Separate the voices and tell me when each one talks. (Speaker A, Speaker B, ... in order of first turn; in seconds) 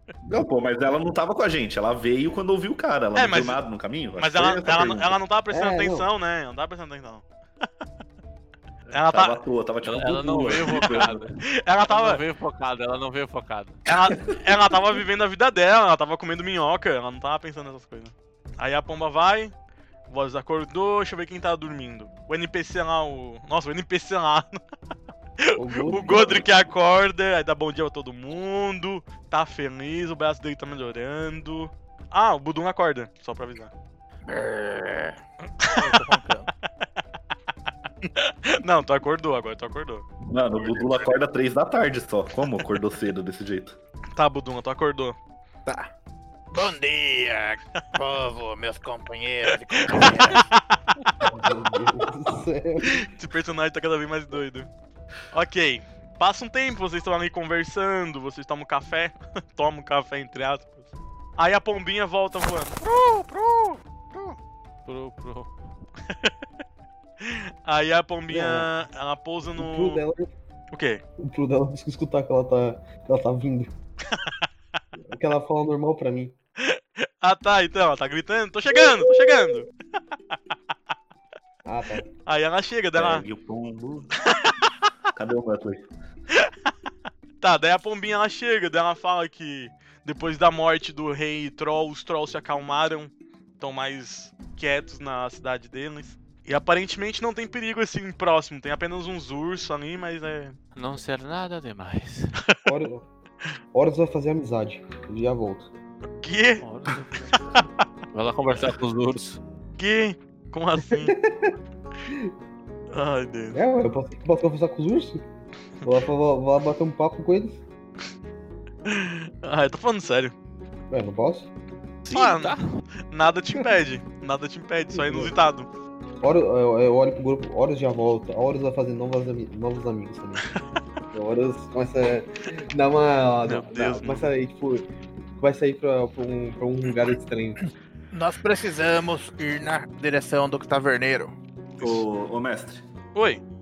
Speaker A: 0.3-5.2, 9.1-11.2, 14.1-14.6, 40.3-43.8, 83.0-84.1, 85.2-85.9, 141.8-142.8
Speaker B: 3.1-3.6, 4.2-7.2, 8.9-9.4, 11.6-12.2, 13.9-19.5, 20.1-24.6, 25.4-33.7, 35.6-36.0, 38.1-40.0, 44.2-45.2, 49.9-51.2, 52.8-54.7, 55.3-60.9, 61.4-64.4, 67.2-70.0, 70.7-71.0, 76.6-79.7, 82.3-83.2, 84.3-84.5, 87.4-100.6, 106.2-106.6, 109.8-111.1, 112.9-113.6, 118.9-120.3, 122.1-125.7, 133.5-134.3, 143.1-143.4
Speaker C: 5.5-6.1, 25.6-26.5, 51.3-53.1, 68.3-68.7, 69.6-70.3, 71.2-73.7, 75.1-76.3, 81.6-82.0, 102.7-103.0, 103.7-105.7, 110.9-111.5, 113.5-115.2, 115.8-117.6, 120.9-121.5, 124.9-125.3, 126.2-130.5, 131.1-134.9, 135.4-137.6
Speaker D: 9.8-13.8, 64.9-65.5, 100.8-102.3, 106.6-107.6, 108.1-109.4, 122.0-122.8, 133.5-134.1
Speaker E: 34.3-36.5, 40.5-41.1, 45.7-45.9, 46.5-50.5, 138.1-141.4